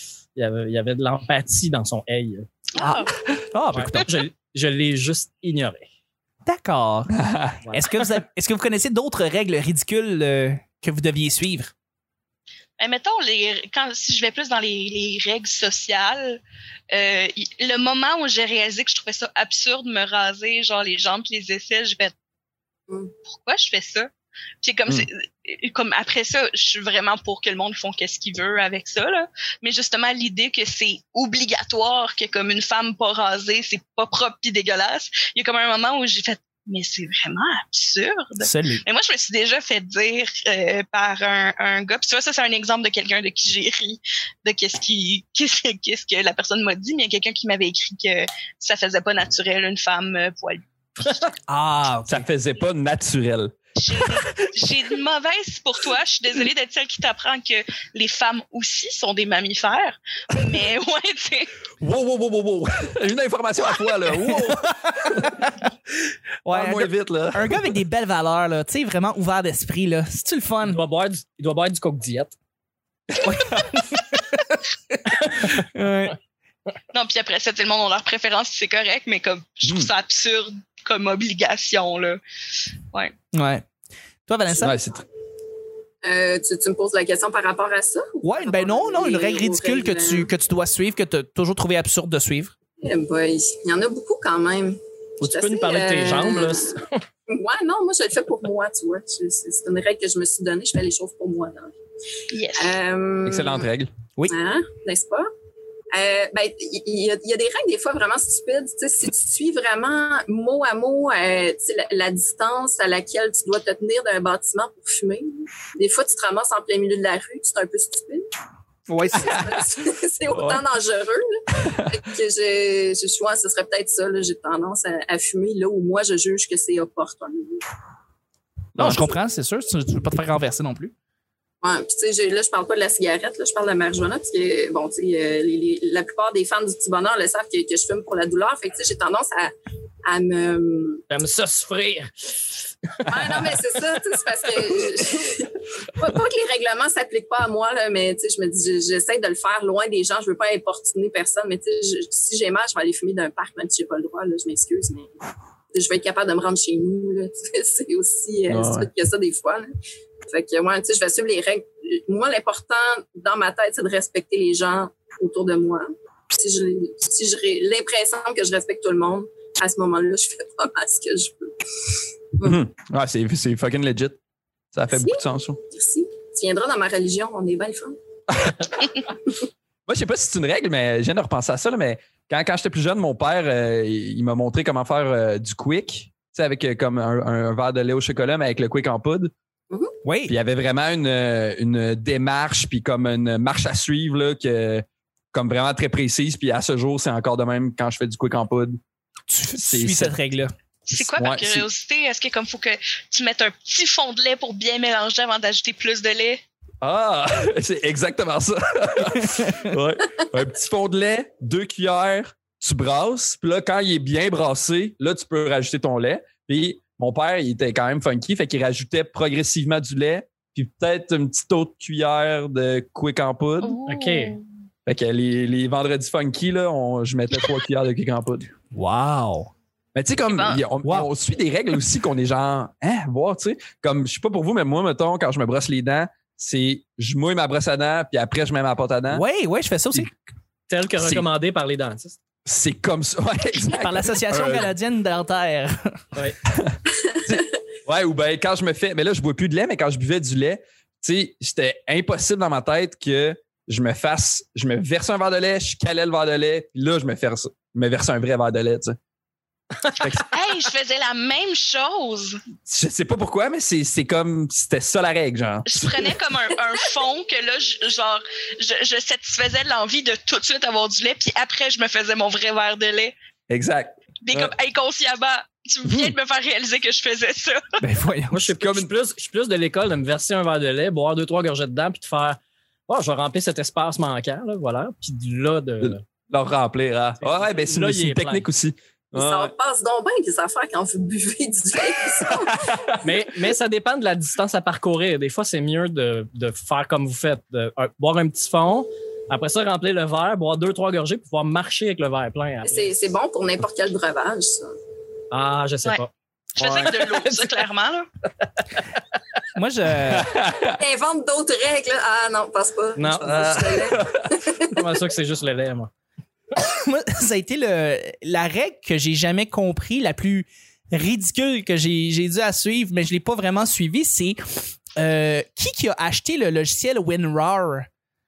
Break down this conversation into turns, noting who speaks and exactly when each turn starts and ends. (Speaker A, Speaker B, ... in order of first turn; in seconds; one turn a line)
Speaker A: 0.3-2.5
Speaker B: 2.7-3.1
Speaker C: 2.8-4.1
Speaker A: 3.7-5.8
Speaker C: 6.5-11.7
Speaker D: 7.1-7.6
Speaker B: 12.8-22.1
Speaker B: 23.3-24.1
Speaker B: 24.6-51.3
Speaker C: 38.4-38.8
Speaker C: 51.5-52.2
Speaker D: 52.1-54.2
Speaker B: 53.8-61.5
Speaker D: 61.8-65.4
Speaker C: 65.0-65.5
Speaker C: 66.4-70.8
Speaker D: 66.5-67.7
Speaker A: 70.6-72.3
Speaker C: 73.2-76.2
Speaker D: 73.3-73.7
Speaker A: 75.2-75.5
Speaker B: 76.9-82.2
Speaker D: 79.6-79.9
Speaker C: 83.3-83.6
Speaker C: 84.3-84.8
Speaker D: 84.5-85.0
Speaker E: 86.0-90.3
Speaker C: 88.2-92.5
Speaker E: 92.8-96.8
Speaker A: 95.2-97.0
Speaker E: 97.3-101.7
Speaker B: 102.3-102.8
Speaker E: 102.5-103.7
Speaker D: 103.2-103.9
Speaker E: 104.3-105.3
Speaker E: 105.9-118.3
Speaker C: 118.9-119.4
Speaker E: 119.0-127.6
Speaker D: 119.2-119.5
Speaker D: 120.3-120.6
Speaker D: 121.5-122.0
Speaker D: 128.8-129.1
Speaker C: 128.8-130.9
Speaker E: 131.6-139.5
Speaker E: 140.0-141.0
Speaker A: 141.1-143.5
Speaker E: 143.1-155.2
Speaker E: 155.7-159.7
Speaker D: 158.5-158.9
Speaker E: 160.2-171.6
Speaker D: 172.4-174.2
Speaker D: 174.7-175.6
Speaker E: 174.9-178.0
Speaker D: 178.3-178.6
Speaker D: 179.9-189.3
Speaker C: 190.0-190.3
Speaker D: 190.3-198.8
Speaker C: 199.3-200.5
Speaker D: 199.6-200.2
Speaker B: 200.8-206.4
Speaker D: 200.9-201.7
Speaker D: 206.8-223.8
Speaker C: 209.2-209.6
Speaker B: 223.6-224.4
Speaker A: 223.8-224.4
Speaker D: 224.8-228.5
Speaker C: 228.7-229.5
Speaker D: 229.9-239.2
Speaker B: 230.3-230.6
Speaker C: 230.8-231.1
Speaker C: 239.1-240.1
Speaker A: 240.7-242.2
Speaker D: 241.0-241.2
Speaker D: 242.4-244.7
Speaker C: 243.7-246.0
Speaker D: 246.5-259.0
Speaker D: 260.0-260.4
Speaker B: 260.2-262.4
Speaker D: 262.6-266.1
Speaker B: 265.6-273.1
Speaker D: 273.5-274.5
Speaker B: 274.2-277.6
Speaker D: 275.9-276.1
Speaker C: 277.8-278.4
Speaker A: 278.3-286.0
Speaker D: 278.6-278.9
Speaker D: 285.8-289.5
Speaker A: 287.2-288.5
Speaker E: 289.1-292.9
Speaker D: 292.2-293.0
Speaker A: 293.0-303.0
Speaker E: 302.6-304.7
Speaker A: 305.3-307.4
Speaker B: 306.6-308.1
Speaker C: 309.5-310.3
Speaker D: 310.1-310.8
Speaker E: 310.7-314.7
Speaker A: 312.9-313.5
Speaker D: 313.2-314.4
Speaker A: 314.6-315.9
Speaker C: 316.6-327.9